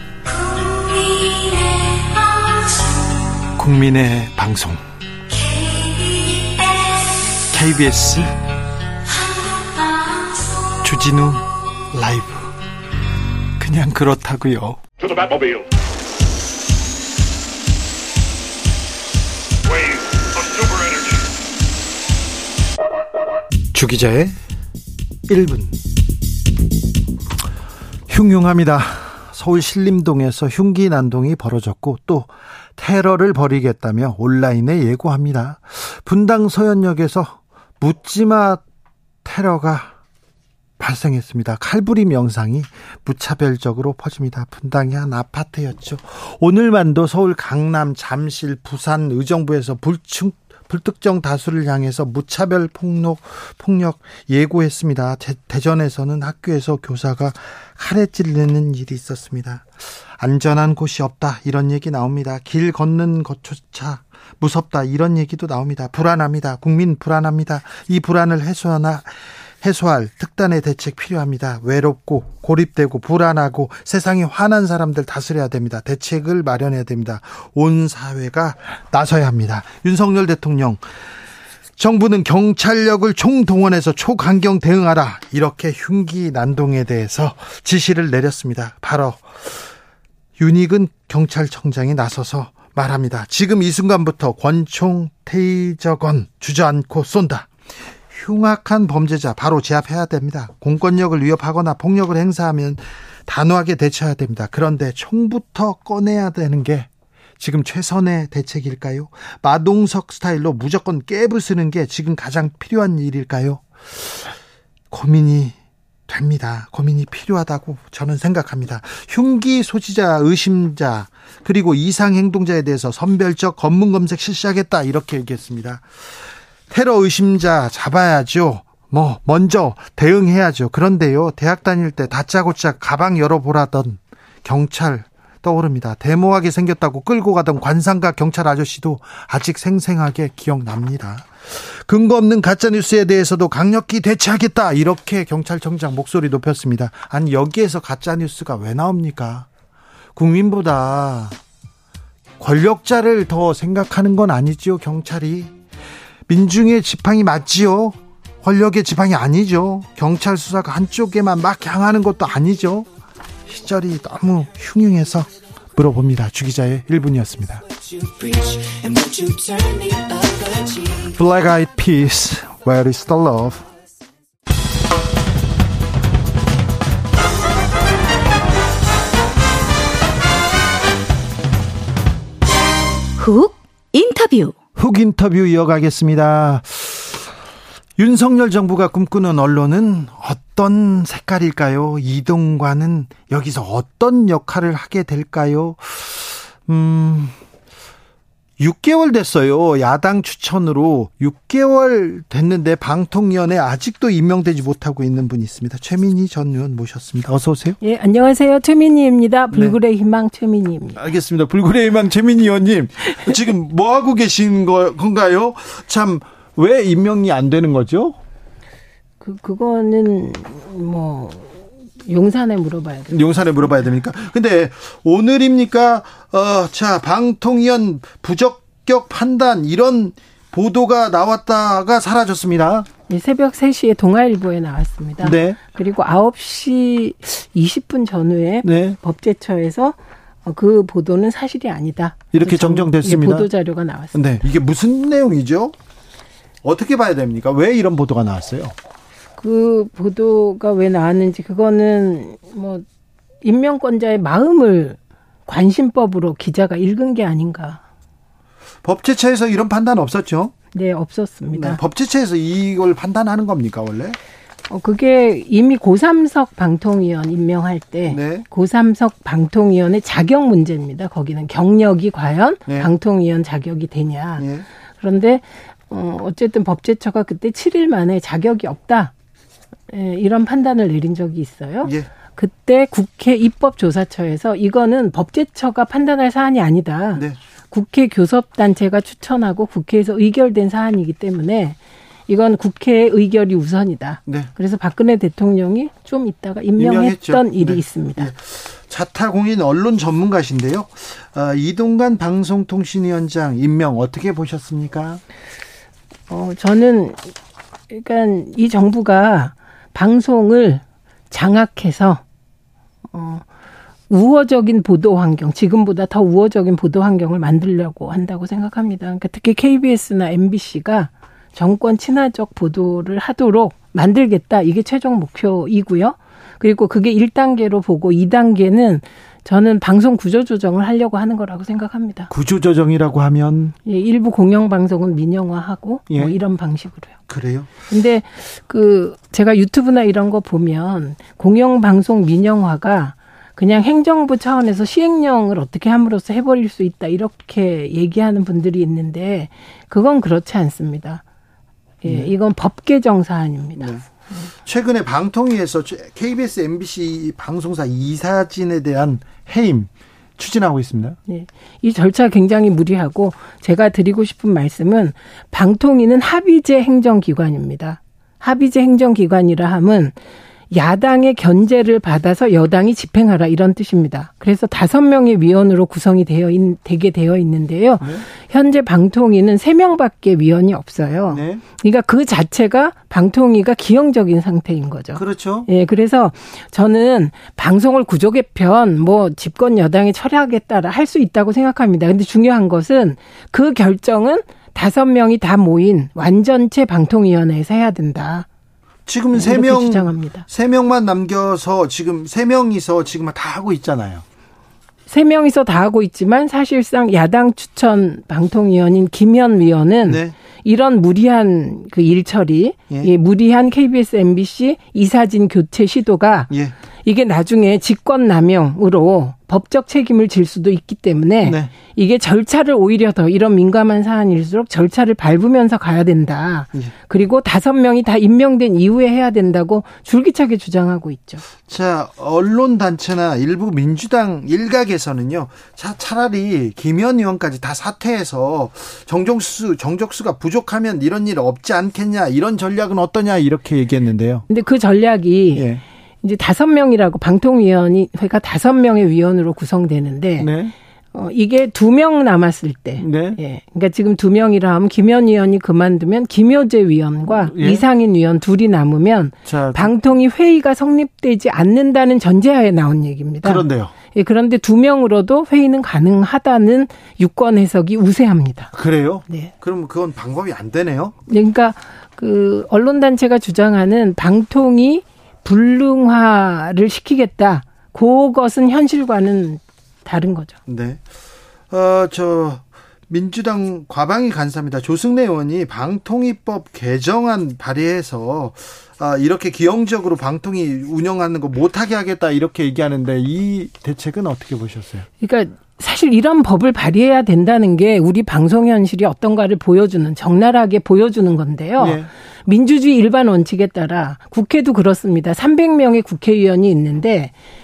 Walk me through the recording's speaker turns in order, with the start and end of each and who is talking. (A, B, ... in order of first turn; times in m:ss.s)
0:00.2-0:03.5 A
0:03.6-0:04.8 B
0:05.3-0:07.5 A
0:07.5-0:08.3 B
0:09.0-0:10.9 A
0:10.8-0:12.5 B
0:13.6-0:14.8 B
0:15.2-0:15.6 A
0:20.4-0:20.9 A
0:23.7-0:24.4 B
0:25.3-0:25.8 B
0:28.1-0:38.6 B
0:39.2-0:39.9 B
0:40.8-1:09.1 B
1:09.6-1:20.8 B
1:21.8-1:29.7 B
1:30.4-1:37.5 B
1:38.1-1:54.3 B
1:54.9-1:55.6 B
1:56.1-2:06.1 B
2:06.7-2:29.5 B
2:30.2-2:31.4 B
2:32.4-2:35.5 B
2:36.3-2:42.9 B
2:43.5-2:47.6 B
2:48.0-2:51.2 A
2:51.2-2:53.6 B
3:03.2-3:04.5 A
3:04.8-3:07.3 B
3:08.0-3:17.3 B
3:18.6-3:27.8 B
3:27.8-3:31.0 C
3:29.5-3:29.8 B
3:31.0-3:38.2 B
3:39.2-3:43.2 C
3:43.1-3:52.9 B
3:53.1-4:04.2 C
3:55.2-3:55.6 B
3:58.6-3:59.0 B
4:02.3-4:03.5 B
4:04.1-4:05.7 B
4:06.6-4:08.7 B
4:09.4-4:12.8 C
4:13.4-4:17.8 C
4:18.8-4:20.5 B
4:20.7-4:21.8 C
4:21.5-4:24.2 B
4:24.7-4:34.5 C
4:28.1-4:28.4 B
4:34.4-4:34.6 B
4:35.0-4:39.1 C
4:39.9-4:58.3 C
4:41.8-4:42.1 B
4:56.8-5:05.2 B
5:06.3-5:07.3 C
5:07.9-5:12.2 C
5:13.1-5:13.4 C
5:14.1-5:32.3 C
5:32.3-5:33.8 B
5:33.8-5:37.1 C
5:36.1-5:36.4 B
5:37.3-5:37.7 B
5:37.9-5:51.2 C
5:52.0-5:54.5 C
5:52.0-5:52.3 B
5:53.8-6:01.2 B
6:01.3-6:10.2 C
6:10.7-6:38.5 C
6:18.0-6:18.2 B
6:21.3-6:21.6 B
6:25.1-6:25.7 B
6:39.0-6:44.2 B
6:39.3-6:40.4 C
6:45.1-6:56.5 C
6:50.0-6:50.4 B
6:56.5-6:56.7 B
6:57.0-7:11.4 C
7:01.4-7:01.7 B
7:11.6-7:24.4 B
7:24.5-7:25.6 C
7:25.5-7:25.8 B
7:26.2-7:30.5 C
7:30.4-7:30.7 B
7:31.1-7:48.7 C
7:33.0-7:33.4 B
7:37.3-7:37.8 B
7:39.4-7:39.9 B
7:43.4-7:43.9 B
7:48.7-7:51.1 B
7:51.3-8:00.6 C
8:00.7-8:01.0 B
8:01.7-8:15.1 B
8:15.2-8:27.3 C
8:21.8-8:22.1 B